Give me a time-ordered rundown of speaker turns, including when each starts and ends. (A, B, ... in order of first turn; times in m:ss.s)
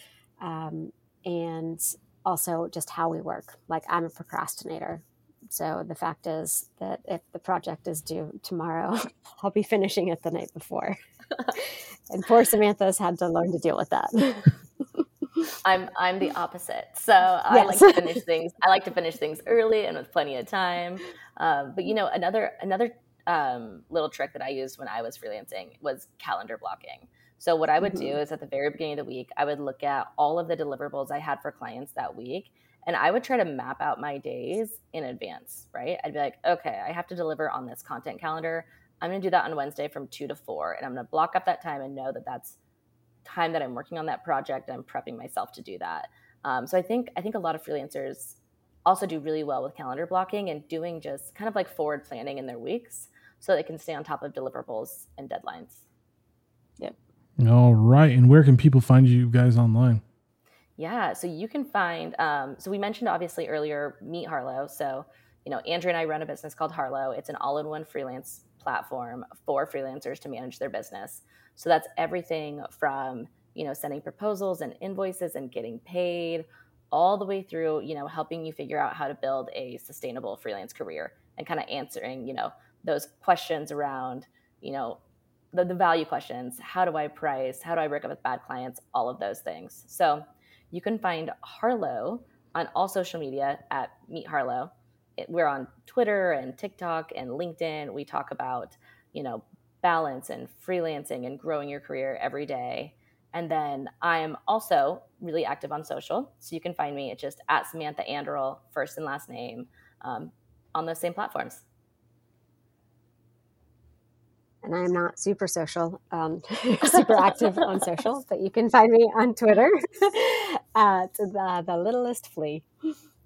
0:00.4-0:11.0 A
0:11.5-0:15.5 A
0:15.6-0:42.6 B
0:17.5-0:18.2 A
0:27.8-0:28.2 A
0:43.2-0:55.8 B
0:57.4-1:00.0 C
1:00.8-1:25.0 B
1:25.5-1:51.6 B
1:54.6-2:02.7 A